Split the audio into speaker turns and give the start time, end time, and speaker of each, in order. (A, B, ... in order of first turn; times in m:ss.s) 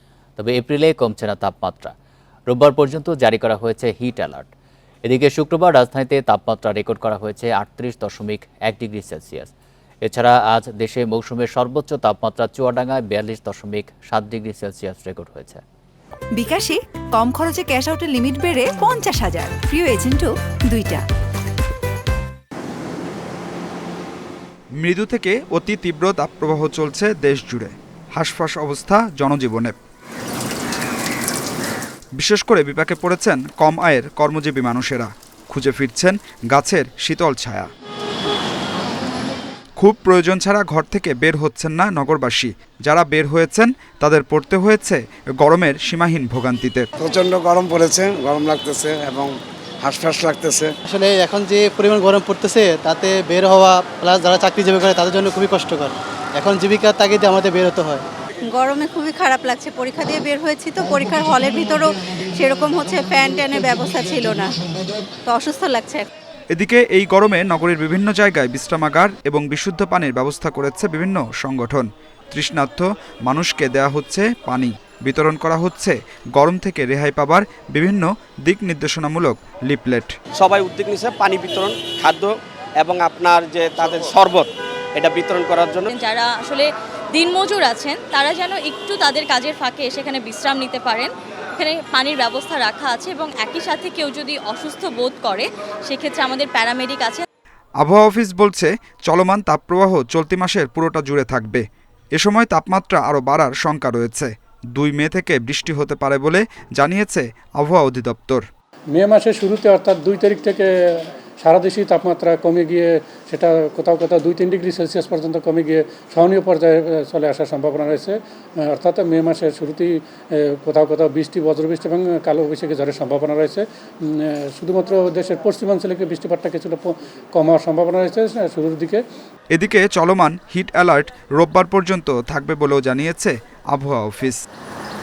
0:00.4-0:01.9 A
0:02.5-0:04.5 A
0:05.0-0:09.5 A
0:10.0-0:15.6 A
0:16.3-0:21.0 B
0:24.8-0:29.7 C
0:32.2-0:37.7 C
0:39.8-0:46.9 C
0:47.0-0:50.7 D
0:50.8-0:58.0 E
0:58.5-1:04.5 F
1:05.2-1:06.1 F
1:06.5-1:20.1 C
1:20.4-1:25.8 G
1:25.9-1:37.2 H
1:37.8-1:41.6 C
1:42.1-1:48.4 C
1:48.9-2:09.0 I
2:09.5-2:14.4 C